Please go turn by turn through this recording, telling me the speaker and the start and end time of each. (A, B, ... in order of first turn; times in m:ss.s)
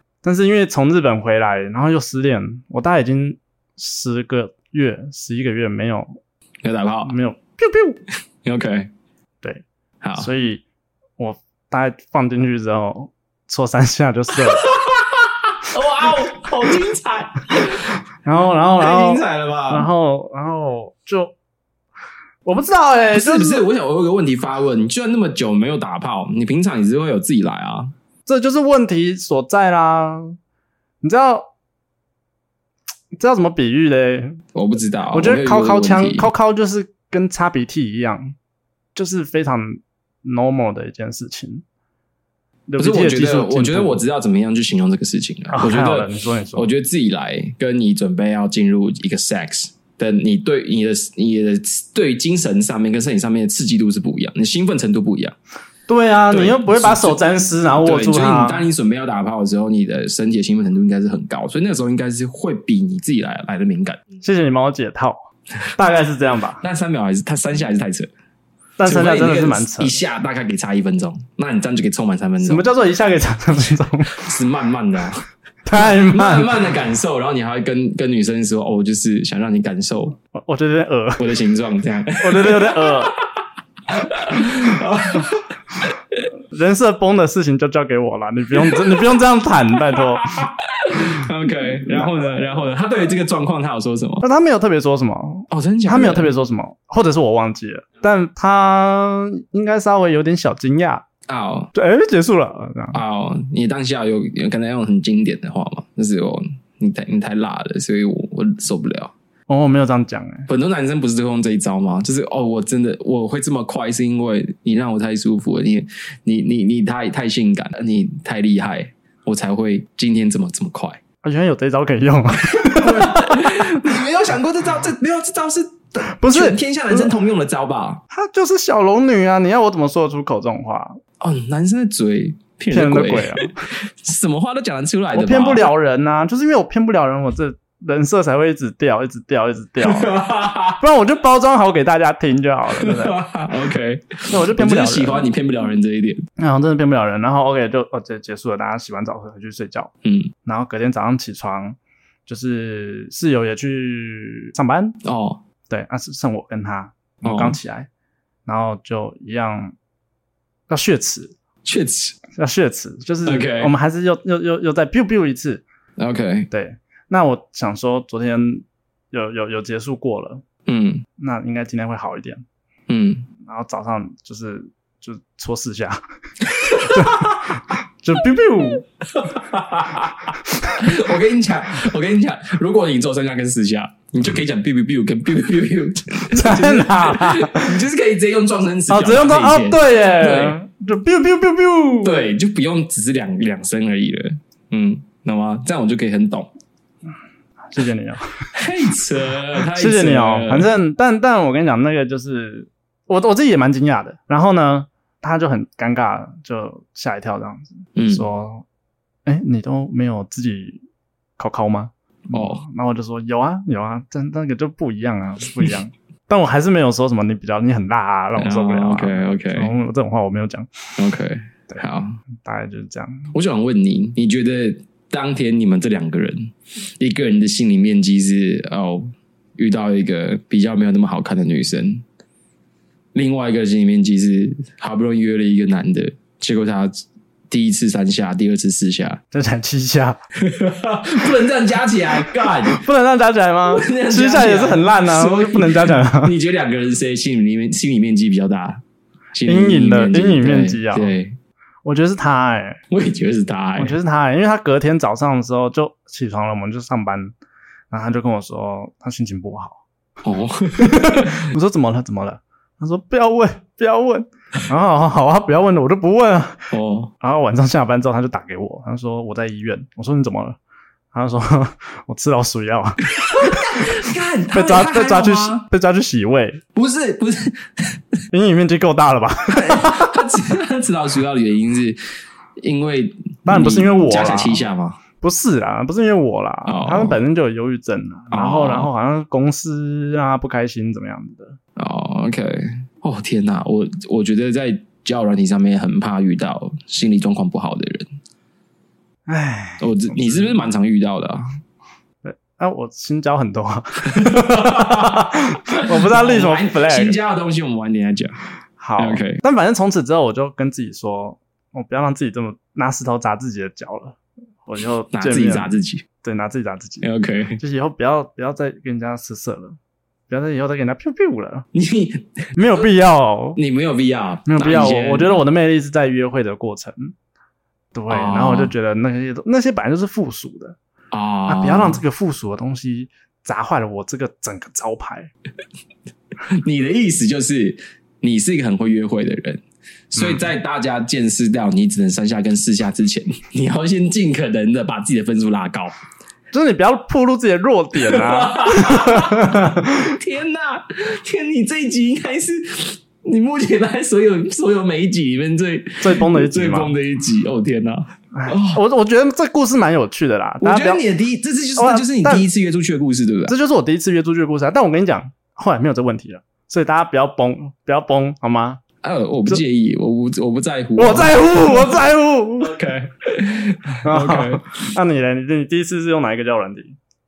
0:00.2-0:06.2 A
0:06.6-0:07.1 B
0:07.0-0:08.0 A
0:08.4-0:08.9 B
0:10.0-0:10.3 B
0:10.2-0:10.6 A
0:11.2-0:14.7 A
0:14.4-0:18.0 B
0:18.2-0:21.4 A
0:18.8-0:19.9 B
0:22.4-0:23.6 A
0:23.1-0:27.9 B
0:28.3-0:30.4 A
0:31.0-0:31.5 A
0:33.1-0:34.4 A
0:34.5-0:36.3 B
0:35.1-0:38.4 A
0:38.9-0:41.6 A
0:42.7-0:44.0 A
0:42.8-0:55.4 B
0:45.5-0:46.7 A
0:55.9-0:58.6 A
0:56.3-0:57.2 B
0:57.8-1:04.0 B
1:04.2-1:06.6 A
1:06.6-1:08.1 B
1:08.8-1:10.0 A
1:08.8-1:12.6 B
1:12.4-1:14.2 A
1:14.1-1:15.2 B
1:15.6-1:16.6 A
1:15.8-1:20.2 B
1:20.3-1:21.3 A
1:21.2-1:23.2 B
1:22.2-1:23.1 A
1:23.9-1:25.8 B
1:26.5-1:30.4 A
1:29.9-1:34.2 B
1:31.8-1:32.3 A
1:34.2-1:41.0 A
1:35.5-1:36.3 B
1:41.3-1:41.7 B
1:41.7-1:43.0 A
1:42.9-1:49.1 B
1:49.5-1:50.5 A
1:50.5-2:01.0 B
2:01.2-2:03.8 A
2:02.5-2:08.0 B
2:06.0-2:07.1 A
2:08.1-2:11.0 A
2:11.2-2:15.7 B
2:12.7-2:13.7 A
2:15.1-2:20.2 A
2:19.8-2:20.8 B
2:20.8-2:23.2 A
2:22.7-2:26.2 B
2:24.3-2:25.3 A
2:26.4-2:29.9 A
2:30.0-2:30.3 B
2:30.4-2:35.0 A
2:35.0-2:35.4 B
2:35.7-2:37.9 A
2:37.2-2:37.6 B
2:38.4-2:39.7 A
2:40.7-2:41.3 A
2:41.6-2:42.2 B
2:42.4-2:45.6 A
2:43.2-2:43.7 B
2:46.0-2:46.5 B
2:46.5-2:50.4 A
2:50.6-2:51.0 B
2:51.2-2:52.4 A
2:52.9-2:53.3 B
2:53.4-2:56.0 A
2:56.4-2:57.6 B
2:56.8-2:58.9 A
2:59.1-3:10.6 B
3:06.3-3:07.7 A
3:08.9-3:12.3 A
3:12.0-3:16.5 B
3:17.7-3:18.5 A
3:18.6-3:20.7 B
3:19.7-3:28.6 A
3:28.0-3:28.2 B
3:29.3-3:30.8 A
3:31.4-3:40.8 A
3:32.3-3:32.6 B
3:38.4-3:39.7 B
3:41.0-3:42.2 B
3:41.7-3:43.3 A
3:43.3-3:52.0 B
3:53.1-3:59.2 B
3:59.3-4:00.2 A
4:00.4-4:02.8 B
4:02.7-4:06.3 A
4:03.7-4:08.8 B
4:09.3-4:11.4 B
4:09.4-4:11.1 A
4:11.8-4:12.8 A
4:12.9-4:14.0 B
4:13.8-4:17.3 A
4:17.9-4:19.8 A
4:20.2-4:21.4 B
4:20.8-4:30.6 A
4:26.7-4:27.1 B
4:31.1-4:33.9 A
4:33.2-4:35.6 B
4:34.5-4:36.6 A
4:36.7-4:38.0 B
4:38.3-4:40.2 A
4:39.5-4:42.0 B
4:42.6-4:45.0 B
4:43.4-4:44.7 A
4:45.2-4:51.6 A
4:46.6-4:47.2 B
4:48.3-4:48.9 B
4:51.8-4:58.1 B
4:59.3-5:00.6 A
4:59.8-5:01.4 B
5:02.2-5:07.2 A
5:04.1-5:08.4 B
5:08.8-5:19.8 A
5:09.0-5:09.4 B
5:15.1-5:16.0 B
5:17.0-5:17.6 B
5:20.3-5:21.6 A
5:21.7-5:22.8 B
5:22.6-5:23.6 A
5:23.6-5:25.3 B
5:24.4-5:27.1 A
5:27.9-5:30.8 A
5:28.1-5:28.7 B
5:31.1-5:32.0 B
5:31.5-5:35.3 A
5:36.5-5:45.9 B
5:40.2-5:40.5 A
5:46.5-5:50.1 A
5:48.0-5:58.8 B
5:56.0-5:56.9 A
5:58.3-6:01.0 A
6:00.6-6:03.6 B
6:01.8-6:02.4 A
6:03.5-6:08.8 A
6:09.0-6:11.9 B
6:11.0-6:12.8 A
6:12.6-6:14.6 B
6:14.0-6:17.0 A